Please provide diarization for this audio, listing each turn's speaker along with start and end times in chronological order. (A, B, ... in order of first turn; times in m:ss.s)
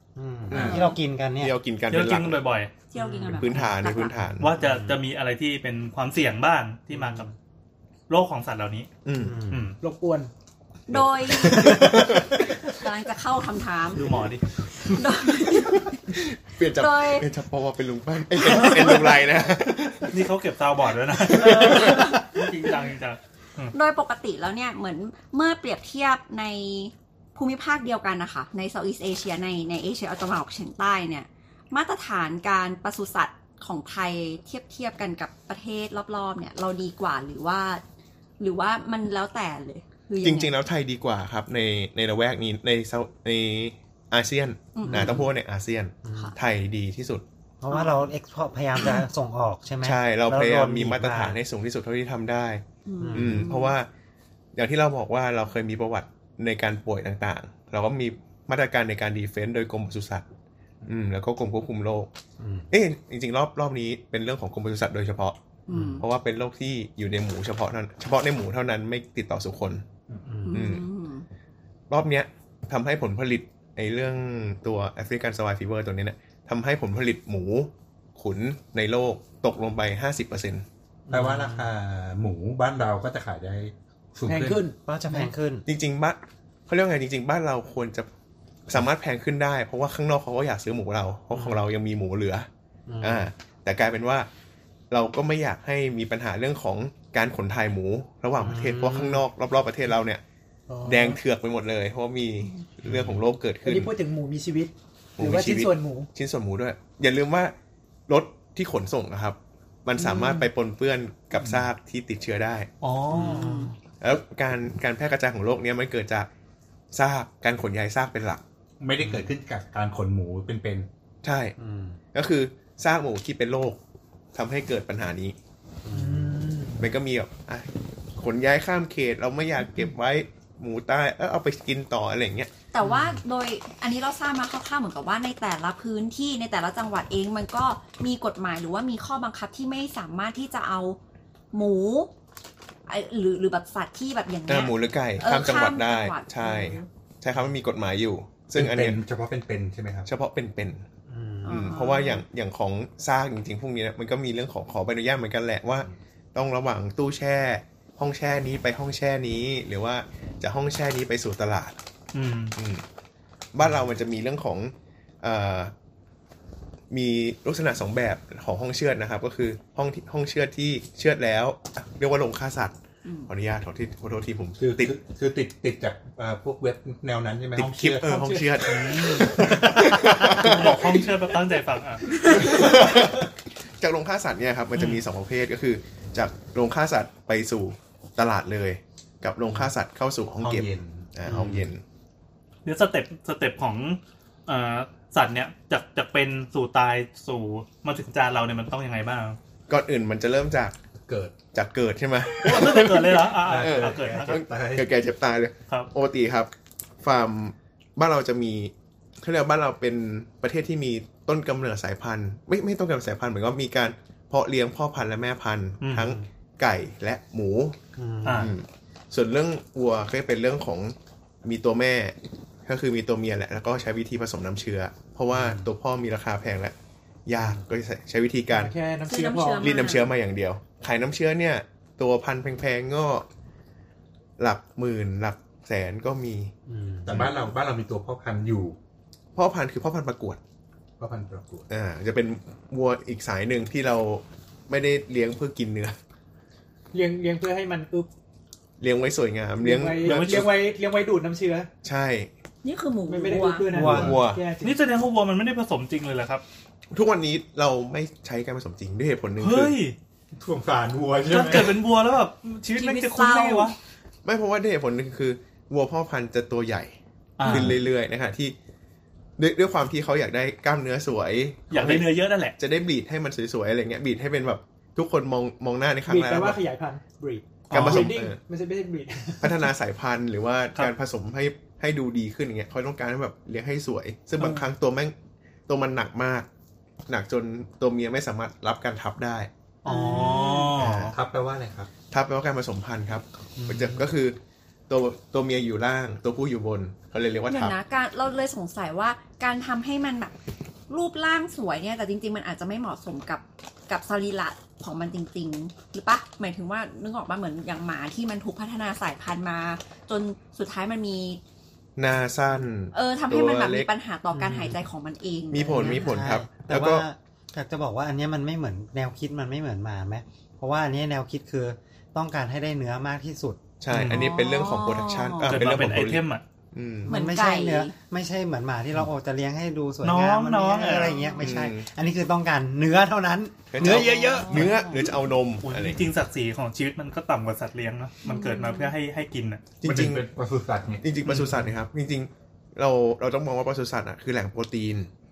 0:00.2-0:01.6 A
0:00.5-0:02.4 B
0:00.5-0:00.9 C
0:01.9-0:02.7 D
0:02.9-0:04.2 E
0:03.0-0:03.6 A
0:03.3-0:04.5 B
0:04.4-0:07.3 D
0:04.6-0:05.0 A
0:06.9-0:07.3 A
0:08.1-0:08.9 D
0:09.0-0:09.4 B
0:09.2-0:09.7 A
0:09.5-0:09.8 D
0:09.8-0:10.3 F
0:10.9-0:11.8 E
0:10.9-0:12.5 B
0:11.6-0:12.1 C
0:12.7-0:14.2 E
0:14.0-0:14.4 D
0:14.8-0:16.0 E
0:16.1-0:20.2 B
0:16.7-0:17.3 E
0:18.5-0:19.0 D
0:20.1-0:23.7 D
0:21.3-0:22.7 E
0:21.4-0:22.1 B
0:23.7-0:37.8 E
0:38.4-0:40.5 E
0:40.2-0:47.2 B
0:44.8-0:45.3 E
0:44.8-0:45.2 A
0:46.0-0:46.4 A
0:47.6-0:51.4 A
0:47.7-0:48.1 E
0:49.8-0:53.9 B
0:52.9-0:53.8 E
0:53.0-0:53.5 A
0:54.6-1:00.3 B
1:00.9-1:02.1 B
1:02.4-1:02.7 A
1:02.7-1:05.4 B
1:05.7-1:06.1 E
1:05.7-1:06.0 A
1:06.0-1:09.8 B
1:10.3-1:10.7 A
1:10.5-1:11.3 E
1:10.5-1:10.8 B
1:11.9-1:20.7 B
1:21.1-1:21.7 A
1:21.1-1:24.6 C
1:24.3-1:25.3 F
1:24.8-1:25.7 A
1:25.7-1:28.1 B
1:28.7-1:32.5 B
1:31.3-1:31.7 A
1:32.9-1:33.3 A
1:33.0-1:34.3 B
1:34.9-1:40.2 B
1:38.4-1:39.2 A
1:40.7-1:41.2 F
1:40.8-1:43.9 B
1:42.9-1:43.2 A
1:43.6-1:46.1 F
1:45.2-1:47.6 B
1:48.1-1:52.7 B
1:51.4-1:51.7 C
1:52.8-1:53.5 D
1:53.1-1:53.8 A
1:53.2-1:53.7 E
1:54.0-1:56.3 B
1:56.9-1:58.4 B
1:58.8-2:00.9 C
1:59.0-1:59.3 A
2:01.2-2:01.6 B
2:01.6-2:02.0 A
2:02.1-2:03.8 B
2:04.3-2:05.4 B
2:05.8-2:06.5 A
2:05.9-2:06.9 F
2:06.8-2:12.5 B
2:12.7-2:21.0 E
2:12.8-2:13.2 A
2:21.5-2:22.1 E
2:22.9-2:26.9 E
2:24.5-2:29.0 B
2:28.6-2:30.1 C
2:30.1-2:30.8 B
2:31.1-2:31.7 A
2:31.4-2:32.2 E
2:31.5-2:41.8 B
2:42.1-2:42.6 D
2:42.6-2:42.8 B
2:43.5-2:45.7 B
2:46.9-2:55.0 B
2:53.0-2:53.3 E
2:54.6-2:58.3 C
2:57.6-3:00.8 B
2:58.0-2:58.6 F
2:58.6-3:02.1 D
3:02.2-3:11.8 B
3:04.8-3:05.0 D
3:10.4-3:11.5 C
3:11.3-3:11.6 A
3:12.6-3:19.4 D
3:19.7-3:20.8 B
3:21.0-3:21.4 C
3:21.5-3:26.5 B
3:22.4-3:24.4 D
3:23.4-3:24.9 C
3:27.0-3:37.8 B
3:35.8-3:36.1 D
3:38.0-3:38.5 A
3:38.2-3:38.5 D
3:38.3-3:42.2 B
3:42.7-3:46.8 B
3:45.3-3:45.7 A
3:47.3-3:48.8 B
3:48.5-3:49.8 F
3:49.1-3:50.1 E
3:49.6-3:53.3 B
3:54.4-3:56.5 B
3:56.7-3:57.3 A
3:57.0-3:58.8 C
3:59.4-4:00.4 B
4:01.0-4:01.7 C
4:01.7-4:06.0 B
4:06.9-4:08.1 F
4:08.8-4:10.5 B
4:09.6-4:11.7 F
4:10.0-4:10.5 D
4:11.8-4:12.3 B
4:12.6-4:13.7 E
4:13.1-4:14.8 F
4:13.7-4:14.2 A
4:13.8-4:14.3 C
4:13.9-4:14.4 B
4:14.6-4:16.4 D
4:16.9-4:19.8 B
4:19.4-4:20.0 D
4:20.4-4:21.8 C
4:21.3-4:23.8 D
4:22.7-4:23.8 E
4:24.2-4:28.6 B
4:27.4-4:27.8 D
4:29.4-4:36.6 B
4:31.7-4:32.6 D
4:36.1-4:39.6 F
4:37.7-4:38.2 D
4:37.7-4:38.4 B
4:39.4-4:45.2 B
4:45.7-4:46.5 B
4:47.1-4:49.5 B
4:49.8-4:51.1 D
4:49.9-4:50.8 E
4:50.8-4:51.2 B
4:51.1-4:51.9 C
4:52.1-4:54.4 B
4:53.6-4:53.9 A
4:54.9-4:57.8 B
4:57.5-5:00.4 E
5:00.9-5:11.4 E
5:12.0-5:13.9 B
5:12.9-5:16.1 E
5:14.3-5:14.8 A
5:15.5-5:17.1 B
5:15.6-5:23.6 A
5:23.8-5:27.1 B
5:23.9-5:24.3 D
5:24.1-5:25.5 E
5:25.4-5:26.4 D
5:27.0-5:34.7 A
5:27.1-5:27.9 E
5:30.0-5:31.2 D
5:31.0-5:31.5 E
5:31.4-5:31.9 B
5:33.7-5:36.1 B
5:33.9-5:35.1 E
5:35.6-5:39.6 D
5:38.2-5:38.9 E
5:39.8-5:40.3 B
5:39.8-5:41.1 C
5:41.0-5:45.1 B
5:41.3-5:41.7 D